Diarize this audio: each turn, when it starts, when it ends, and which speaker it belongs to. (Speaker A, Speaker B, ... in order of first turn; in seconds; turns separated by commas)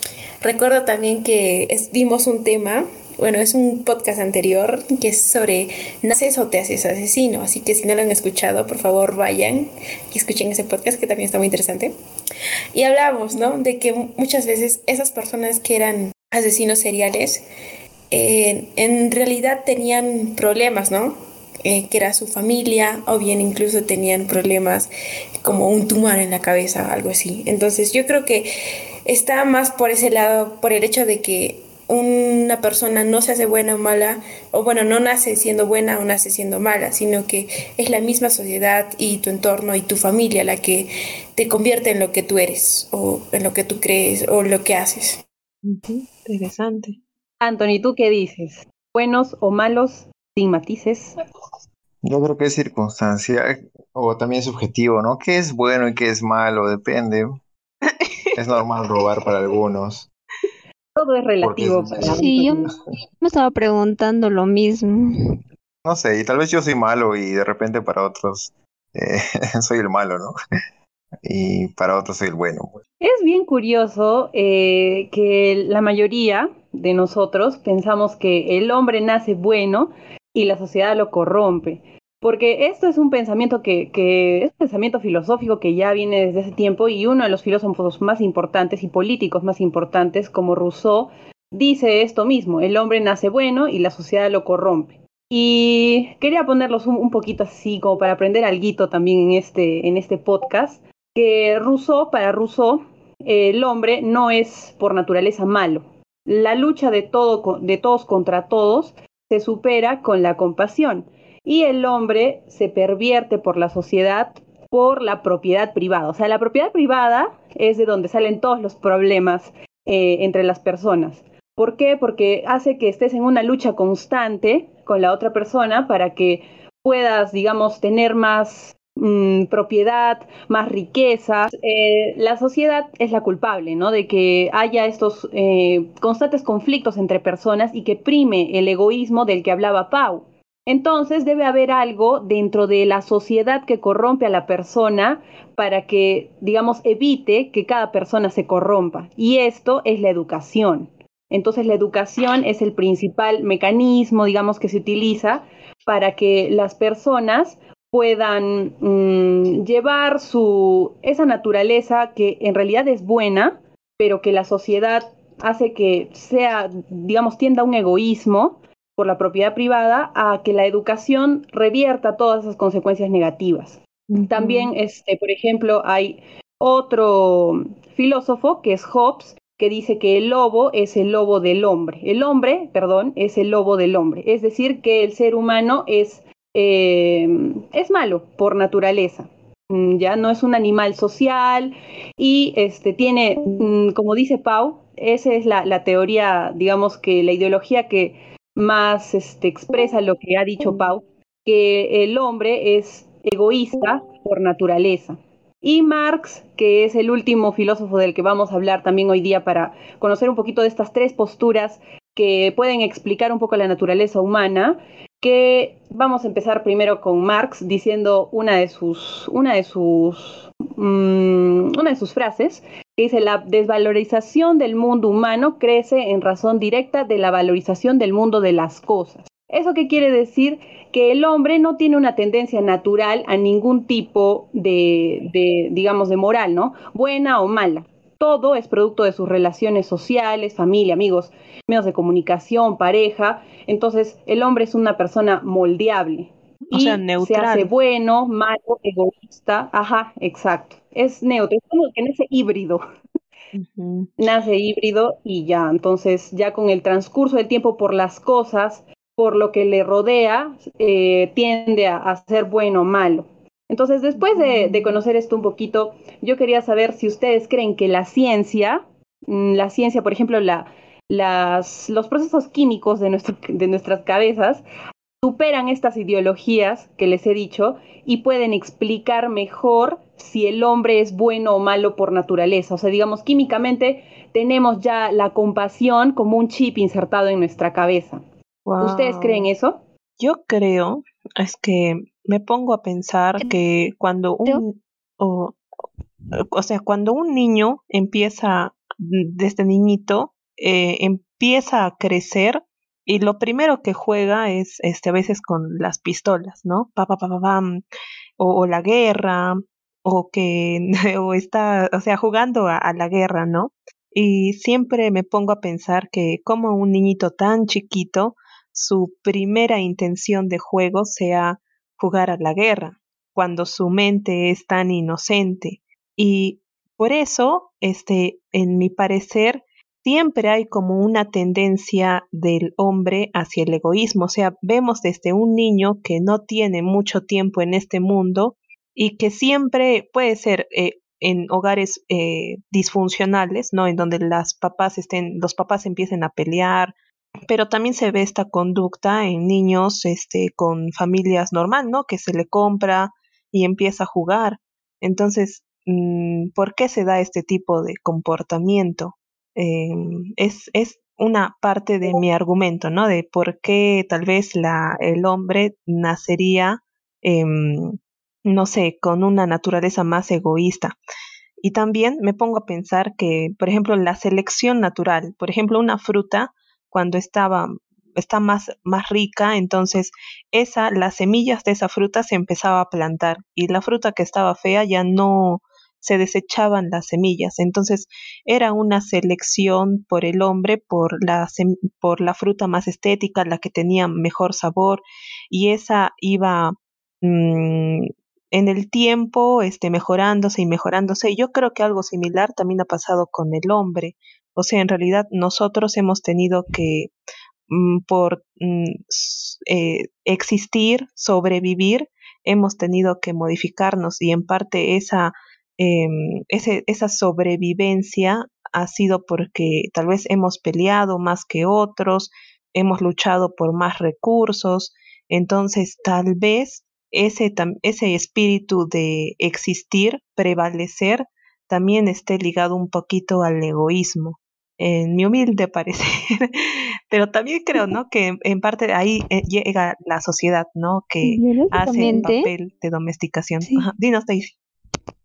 Speaker A: 0.4-11.9, Speaker A: 12.7-17.4, Speaker A: 18.1-24.9, Speaker A: 25.4-28.5, Speaker A: 29.1-45.2, Speaker B: 45.6-47.0, Speaker C: 47.4-51.1, Speaker D: 52.0-57.4, Speaker D: 58.3-60.1, Speaker C: 60.9-62.7, Speaker D: 61.4-62.8, Speaker E: 62.1-65.3, Speaker D: 65.8-70.3, Speaker D: 71.2-72.8, Speaker C: 73.0-252.8, Speaker B: 174.1-174.7, Speaker B: 246.7-247.7, Speaker B: 253.5-254.1, Speaker C: 254.2-274.6, Speaker B: 264.1-265.0, Speaker C: 275.2-288.2, Speaker B: 288.6-289.5, Speaker C: 288.8-289.8, Speaker B: 290.2-295.6, Speaker B: 296.5-307.8, Speaker B: 308.4-346.9, Speaker B: 347.5-370.9, Speaker B: 371.6-407.1, Speaker B: 407.7-444.5, Speaker E: 441.2-442.5, Speaker E: 443.6-443.9